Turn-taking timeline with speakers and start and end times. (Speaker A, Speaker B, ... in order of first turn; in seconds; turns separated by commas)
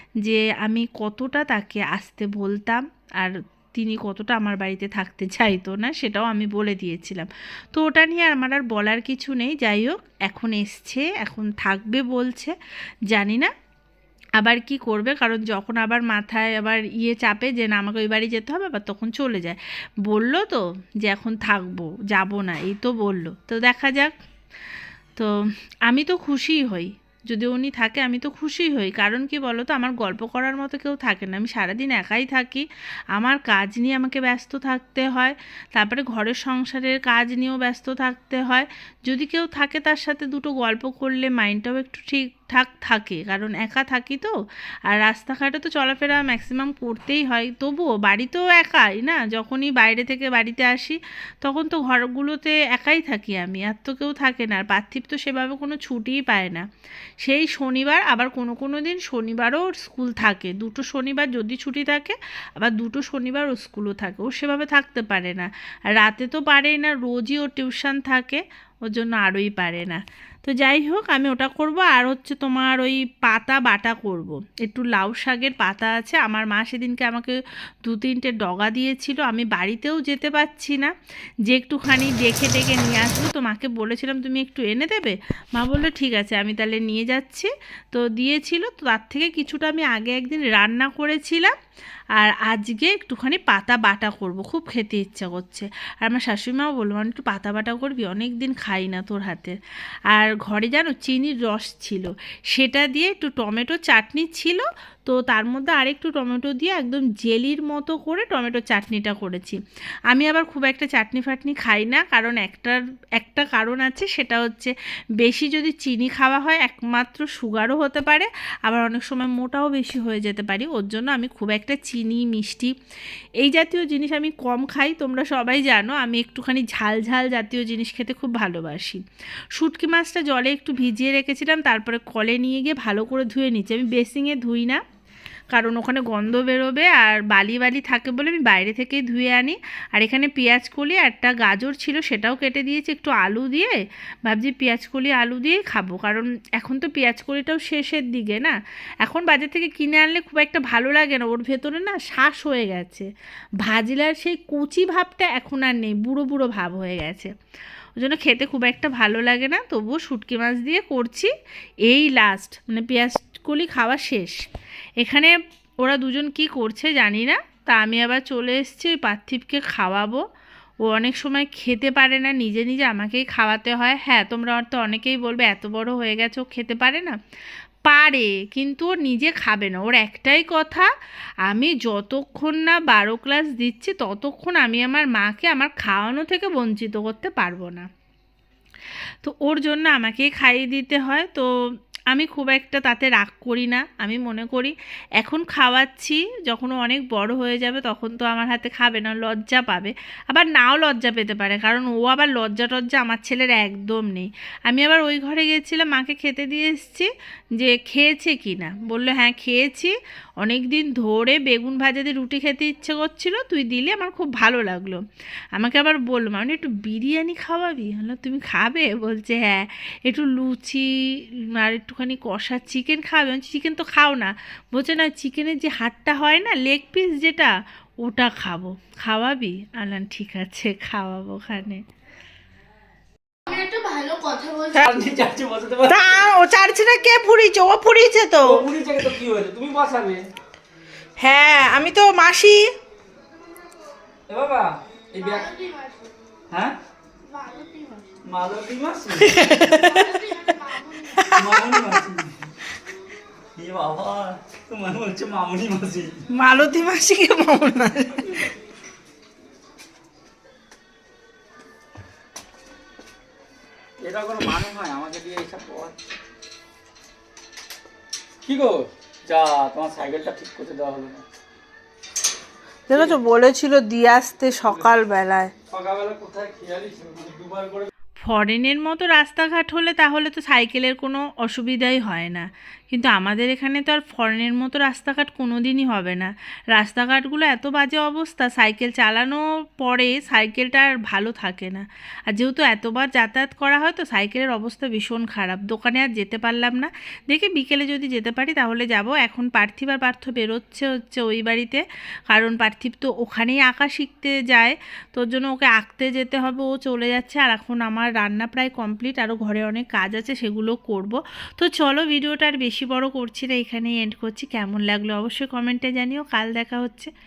Speaker A: 0.2-12.5, Speaker A: 13.1-13.5, Speaker A: 14.4-19.6, Speaker A: 20.1-24.1, Speaker A: 25.9-32.6, Speaker A: 33.2-44.3, Speaker A: 44.9-56.6, Speaker A: 57.2-80.9, Speaker A: 81.5-91.5, Speaker A: 92.2-99.5, Speaker A: 100.1-109.6, Speaker A: 110.1-122.7, Speaker A: 123.4-129.0, Speaker A: 129.6-134.8, Speaker A: 135.5-143.8, Speaker A: 144.3-153.1, Speaker A: 153.6-157.3, Speaker A: 158.0-161.3, Speaker A: 161.9-164.4, Speaker A: 165.0-170.2, Speaker A: 170.8-177.2, Speaker A: 177.9-180.9, Speaker A: 181.5-187.9, Speaker A: 189.2-191.4, Speaker A: 192.1-207.1, Speaker A: 207.6-215.0, Speaker A: 215.6-227.5, Speaker A: 228.0-231.8, Speaker B: 233.5-234.8, Speaker C: 234.8-236.2, Speaker D: 235.9-238.6, Speaker C: 238.4-240.2, Speaker D: 241.2-242.7, Speaker C: 244.3-245.6, Speaker B: 245.4-246.1, Speaker C: 246.5-246.8, Speaker B: 247.3-248.1, Speaker C: 248.3-249.8, Speaker D: 249.2-251.7, Speaker B: 250.0-251.2, Speaker C: 251.3-252.5, Speaker C: 253.6-256.2, Speaker D: 256.3-258.4, Speaker C: 264.0-265.9, Speaker C: 268.4-271.2, Speaker D: 272.9-275.5, Speaker C: 272.9-273.2, Speaker C: 275.7-277.9, Speaker A: 278.2-317.1